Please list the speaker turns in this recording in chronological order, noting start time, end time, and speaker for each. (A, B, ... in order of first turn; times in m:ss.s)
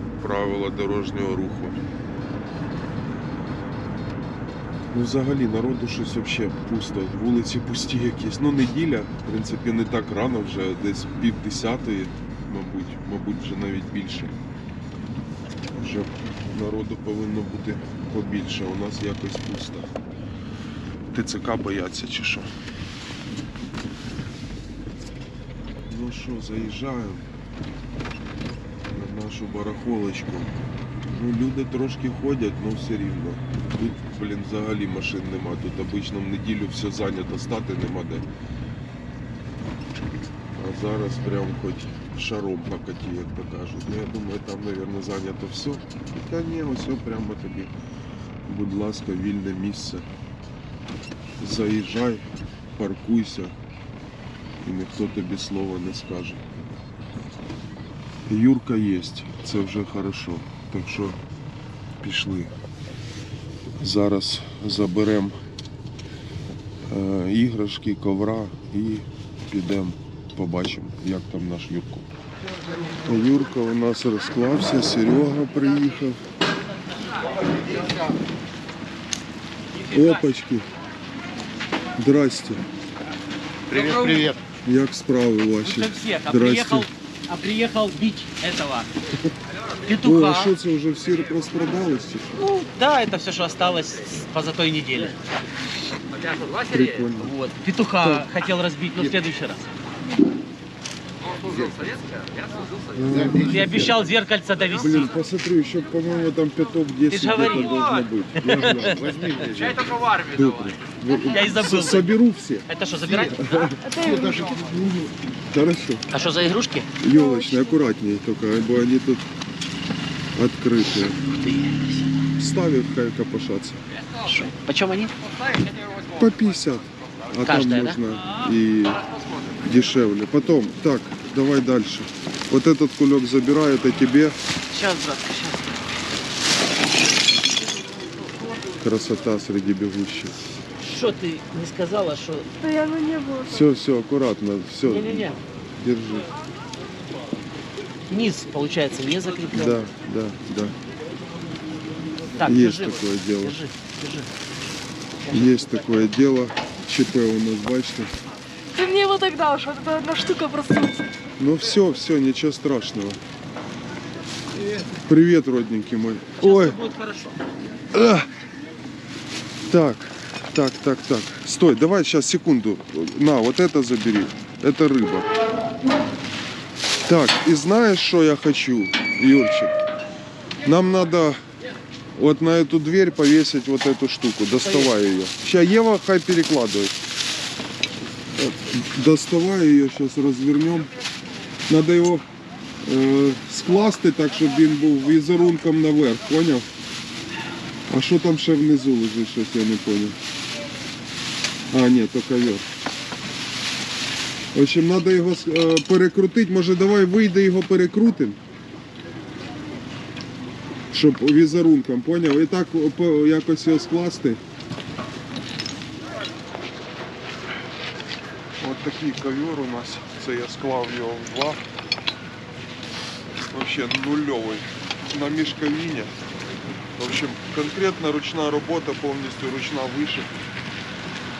0:00.2-0:01.8 A
0:04.9-0:14.3 A
0:15.7-0:19.9 A
0:21.1-0:22.5 A
0:25.9-0:27.2 A
0:28.9-0:30.6 A
0:31.1-0:38.3 A
0:40.6-0:47.7 A
0:48.4-0:50.1 A
0:51.4-0:53.5 A
0:54.6-0:56.4 A
0:58.3-1:01.2 A
1:02.0-1:02.5 A
1:03.8-1:05.4 A
1:06.9-1:12.1 A
1:13.0-1:16.2 A
1:19.8-1:20.2 B
1:19.9-1:20.7 A
1:22.0-1:22.6 A
1:23.7-1:24.3 B
1:23.7-1:24.4 C
1:24.6-1:26.9 A
1:25.6-1:28.9 B
1:29.9-1:30.5 B
1:30.0-1:32.3 A
1:32.4-1:35.2 B
1:36.6-1:37.3 A
1:37.2-1:39.7 B
1:38.0-1:38.3 A
1:41.4-1:42.0 C
1:42.9-1:43.9 A
1:43.1-1:43.7 C
1:43.2-1:45.1 B
1:44.8-1:49.2 A
1:47.1-1:49.1 B
1:48.5-1:49.9 C
1:50.2-1:53.8 A
1:51.2-1:52.1 B
1:52.7-1:53.8 B
1:53.8-1:54.7 D
1:54.0-1:55.0 C
1:55.3-1:56.0 A
1:56.1-1:56.9 B
1:57.0-1:59.2 A
1:57.1-1:57.9 D
2:00.4-2:01.2 A
2:01.4-2:02.1 B
2:02.4-2:03.8 A
2:04.2-2:05.1 B
2:06.1-2:09.0 A
2:07.4-2:08.0 B
2:09.6-2:14.4 A
2:14.7-2:15.8 B
2:18.8-2:20.4 A
2:20.8-2:22.5 B
2:22.6-2:23.7 D
2:23.5-2:26.3 A
2:24.8-2:25.4 B
2:28.1-2:29.9 B
2:29.5-2:30.8 A
2:32.4-2:34.3 B
2:32.4-2:33.6 A
2:35.3-2:38.1 A
2:38.7-2:41.1 D
2:41.4-2:43.2 A
2:45.0-2:46.8 A
2:46.4-2:47.4 B
2:47.9-2:48.3 A
2:49.7-2:55.3 A
2:57.1-2:59.8 A
3:00.6-3:01.4 A
3:02.2-3:07.0 A
3:04.6-3:04.9 B
3:08.4-3:10.9 A
3:11.7-3:12.2 A
3:12.8-3:16.7 A
3:17.9-3:20.2 A
3:21.7-3:22.7 A
3:24.5-3:28.4 A
3:30.9-3:34.4 A
3:38.6-3:41.6 A
3:43.5-3:46.1 A
3:47.0-3:50.3 A